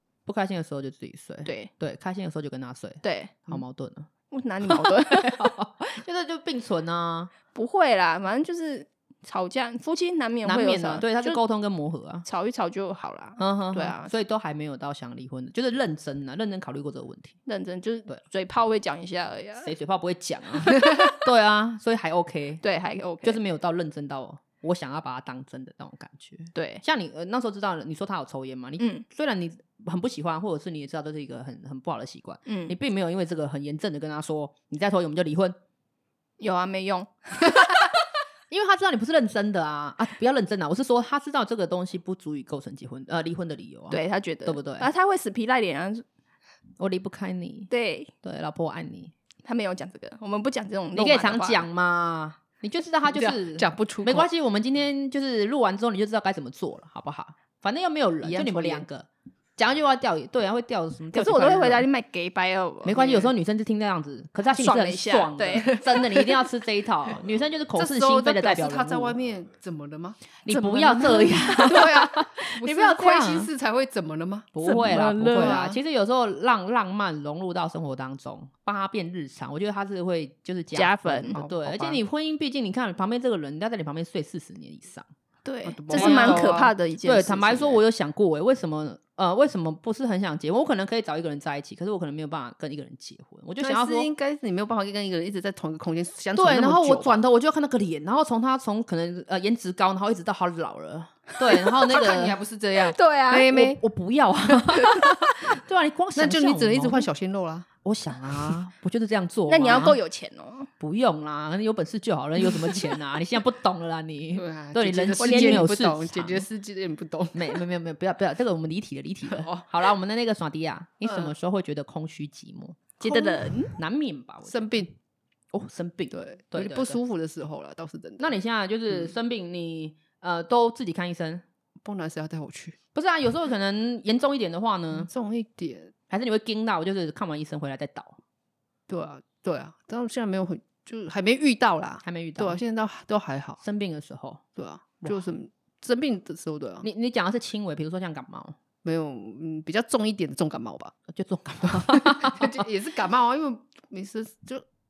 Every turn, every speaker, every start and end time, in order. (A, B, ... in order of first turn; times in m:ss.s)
0:00.2-0:04.1 A
0:03.0-0:03.4 B
0:04.3-0:05.5 B
0:04.6-0:07.3 A
0:07.5-0:11.4 B
0:10.4-0:12.2 A
0:12.2-0:14.1 B
0:13.4-0:17.3 A
0:17.5-0:19.7 B
0:19.6-0:22.6 A
0:20.7-0:21.1 B
0:22.6-0:23.4 B
0:23.2-0:35.6 A
0:26.5-0:26.8 B
0:28.8-0:29.0 B
0:32.5-0:32.7 B
0:36.4-0:37.4 B
0:38.5-0:44.9 A
0:43.9-0:46.0 B
0:46.8-0:47.7 A
0:47.7-0:48.1 B
0:48.2-0:49.1 A
0:49.4-0:51.7 B
0:50.9-1:01.8 A
0:53.1-0:54.3 C
0:58.2-0:58.8 C
1:01.1-1:03.2 B
1:02.8-1:09.2 A
1:04.5-1:05.8 B
1:05.7-1:06.0 C
1:07.7-1:15.8 C
1:10.4-1:13.5 A
1:10.5-1:11.8 B
1:14.5-1:25.0 A
1:14.6-1:15.6 B
1:20.7-1:21.4 B
1:21.3-1:22.0 C
1:25.4-1:27.8 B
1:25.6-1:26.7 C
1:25.9-1:34.1 A
1:33.6-1:37.2 C
1:36.3-1:42.4 A
1:41.8-1:43.8 C
1:42.8-1:43.5 B
1:43.4-1:47.1 A
1:44.5-1:45.0 C
1:46.1-1:47.7 C
1:47.8-1:50.0 A
1:49.5-1:50.7 B
1:50.8-1:56.4 A
1:54.3-1:57.6 C
1:55.2-1:55.7 B
1:57.3-2:04.8 A
1:59.3-1:59.6 C
2:01.0-2:01.3 C
2:03.0-2:03.7 B
2:03.0-2:03.4 C
2:04.4-2:04.9 C
2:05.5-2:07.0 A
2:06.1-2:08.3 C
2:08.2-2:11.4 A
2:11.8-2:12.8 C
2:12.9-2:15.1 A
2:15.0-2:15.9 C
2:16.1-2:18.2 A
2:18.9-2:23.6 C
2:22.0-2:22.6 A
2:23.6-2:24.4 A
2:24.6-2:26.8 C
2:26.8-2:28.6 A
2:28.8-2:30.9 C
2:31.1-2:32.6 A
2:31.6-2:34.6 C